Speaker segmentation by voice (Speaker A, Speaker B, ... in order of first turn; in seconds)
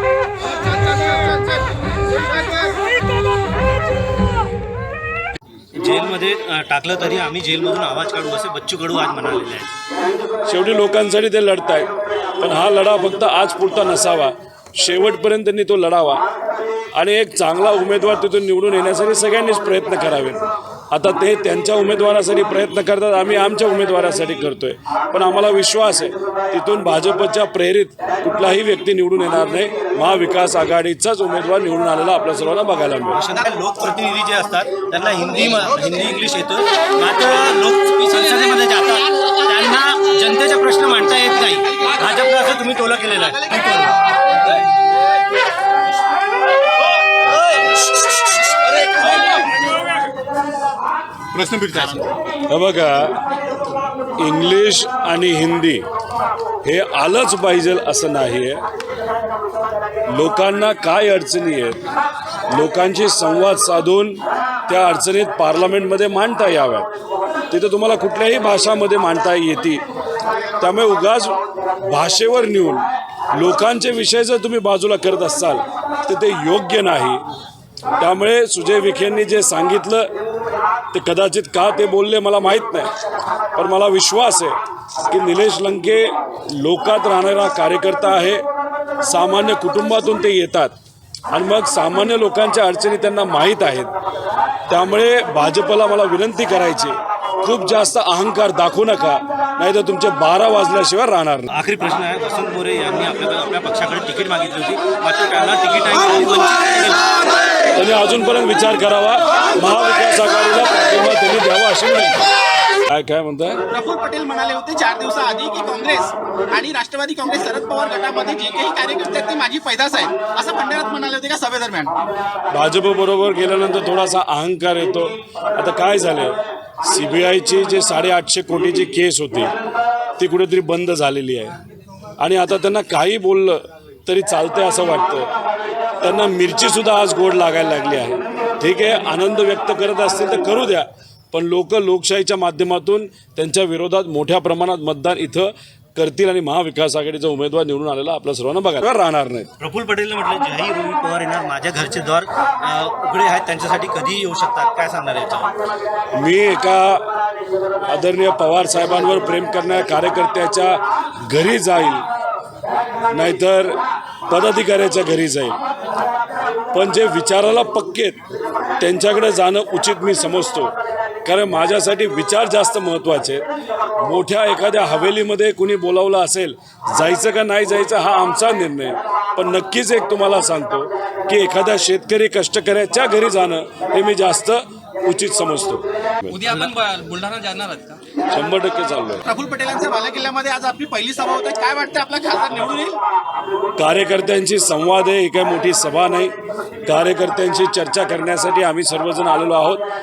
Speaker A: 5.8-9.7, 33.1-44.0, 48.9-49.2, 51.6-52.0, 101.5-107.1, 149.6-155.5
Speaker B: 10.4-11.9, 12.4-16.2, 16.9-33.2, 52.3-53.2, 54.2-55.8, 56.6-58.6, 60.1-61.8, 62.5-66.9, 67.5-69.8, 70.6-77.2, 78.0-80.1, 80.9-82.9, 83.5-88.4, 89.0-90.7, 91.3-93.9, 94.7-101.5, 107.7-112.2, 112.8-113.6, 122.5-129.5, 130.2-131.5, 132.2-135.3, 136.0-149.5, 156.1-157.1, 157.9-162.0, 163.1-163.8, 164.3-165.6, 166.7-168.2, 168.8-170.7, 171.2-173.4, 174.0-186.4, 188.3-189.2, 193.8-196.3, 196.8-199.8
Speaker C: 51.3-52.0, 186.3-188.0
Speaker D: 113.7-121.9, 189.2-193.0